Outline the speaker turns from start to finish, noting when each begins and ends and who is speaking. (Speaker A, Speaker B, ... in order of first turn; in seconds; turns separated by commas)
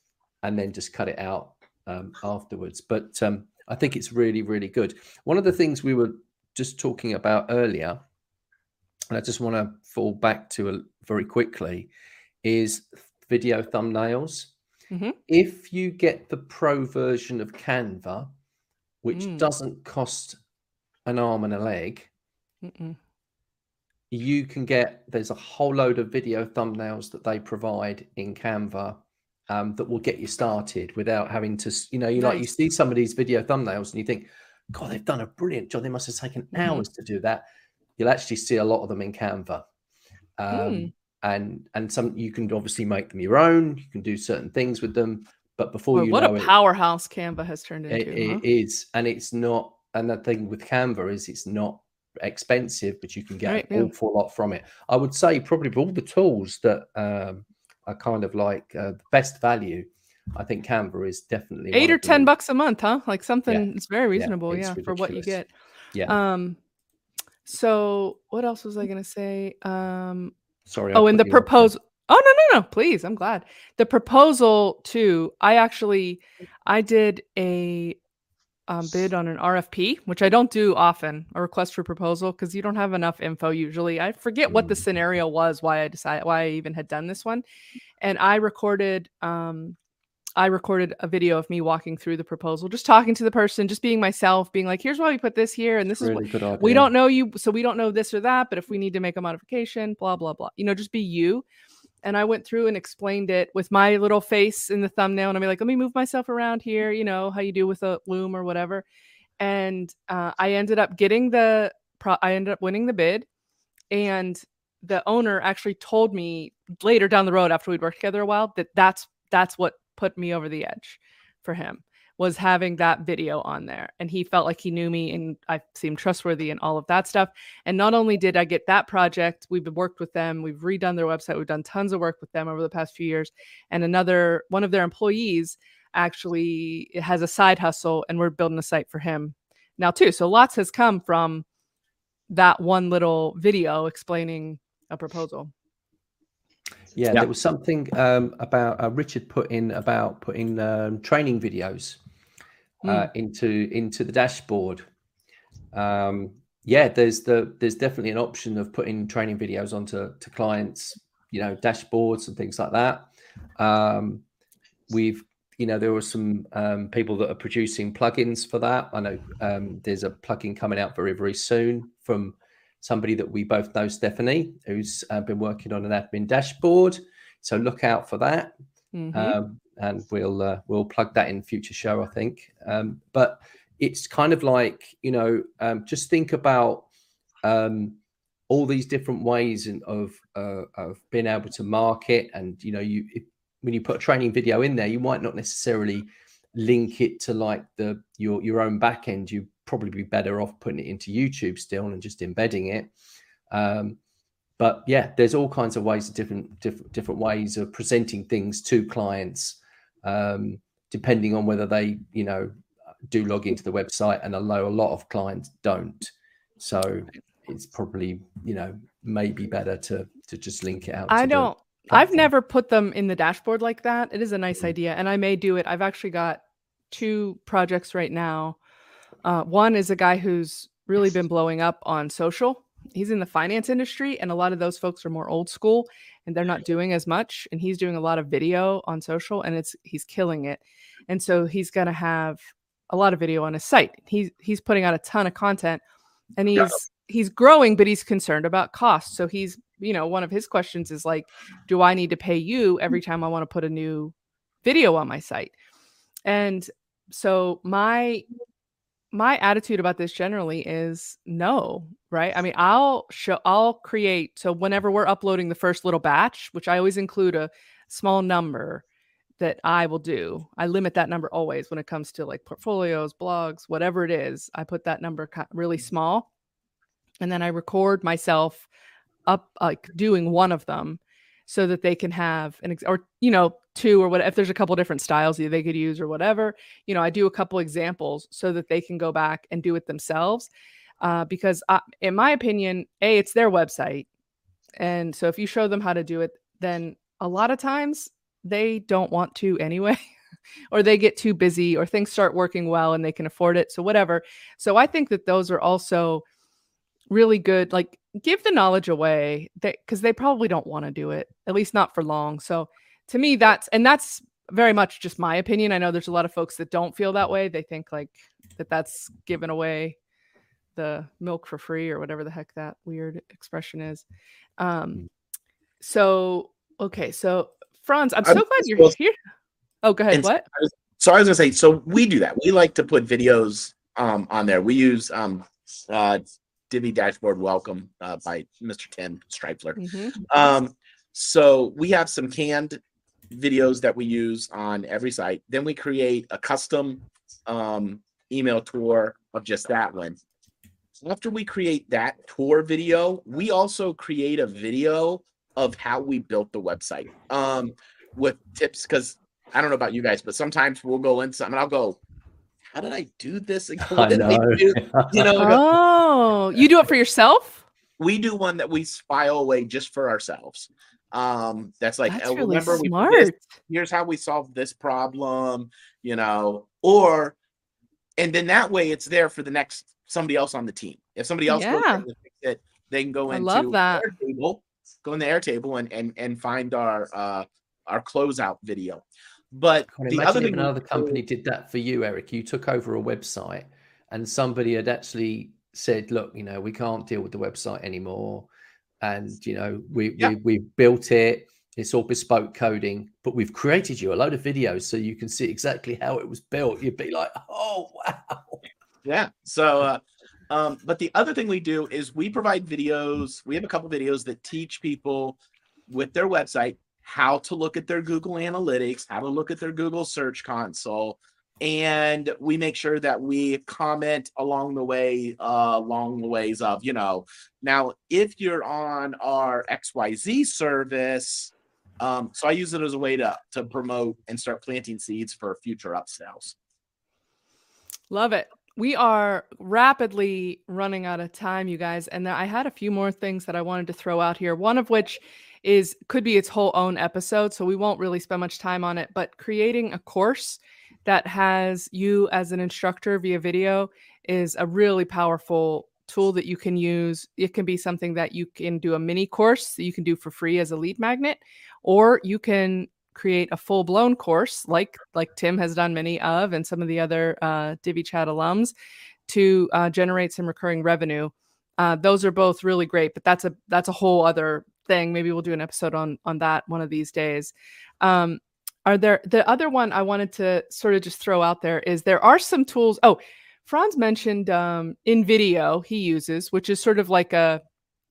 Speaker A: 0.4-8.0, Speaker A: 9.1-11.9, Speaker A: 12.4-14.5, Speaker B: 14.9-15.2, Speaker A: 15.3-18.3, Speaker A: 19.0-20.4, Speaker B: 19.1-19.4, Speaker A: 21.1-22.1, Speaker B: 22.6-23.0, Speaker A: 24.1-37.4, Speaker B: 32.2-32.5, Speaker B: 36.6-36.9, Speaker A: 38.0-39.6, Speaker A: 40.4-46.5, Speaker B: 40.5-40.9, Speaker B: 45.9-48.4, Speaker A: 47.9-62.3, Speaker B: 53.5-53.9, Speaker B: 61.7-65.5, Speaker A: 63.5-65.4, Speaker A: 65.9-66.2, Speaker B: 66.1-66.6, Speaker B: 67.5-70.3, Speaker A: 70.7-71.7, Speaker B: 70.9-78.0, Speaker B: 78.7-87.4, Speaker A: 84.5-84.8, Speaker B: 88.0-89.8, Speaker B: 90.4-101.4, Speaker A: 96.0-96.9, Speaker B: 102.0-108.8, Speaker B: 109.4-113.3, Speaker B: 113.9-141.4, Speaker B: 142.3-145.5, Speaker A: 147.0-152.0, Speaker B: 152.8-153.1, Speaker A: 152.8-154.8, Speaker A: 155.7-164.2, Speaker A: 164.9-178.5, Speaker B: 178.9-179.4, Speaker A: 179.1-186.9, Speaker A: 187.4-188.0, Speaker A: 188.5-202.9, Speaker A: 203.5-204.0, Speaker A: 204.6-212.5, Speaker A: 213.1-222.3, Speaker B: 221.1-228.6, Speaker B: 229.2-245.8, Speaker B: 246.4-254.1, Speaker B: 254.6-255.5, Speaker B: 256.3-258.2, Speaker B: 259.1-268.8, Speaker B: 269.4-276.3, Speaker B: 277.2-278.7, Speaker B: 279.3-290.5, Speaker B: 291.0-294.1, Speaker B: 294.8-300.0, Speaker B: 300.7-306.2, Speaker B: 307.1-320.0, Speaker B: 320.8-324.1, Speaker B: 324.6-325.1, Speaker B: 325.8-329.1, Speaker C: 328.2-328.9, Speaker B: 329.8-330.4, Speaker C: 330.1-350.2, Speaker B: 339.8-340.2, Speaker C: 351.0-362.0, Speaker C: 362.7-365.6, Speaker A: 363.8-365.6, Speaker B: 365.4-367.6, Speaker C: 368.0-377.4, Speaker B: 372.1-373.5, Speaker C: 378.2-391.2, Speaker B: 381.5-382.1, Speaker B: 383.3-384.1, Speaker A: 389.9-398.5, Speaker A: 399.0-408.6, Speaker C: 409.1-415.4, Speaker C: 415.9-436.6, Speaker B: 438.1-468.7, Speaker B: 469.3-487.6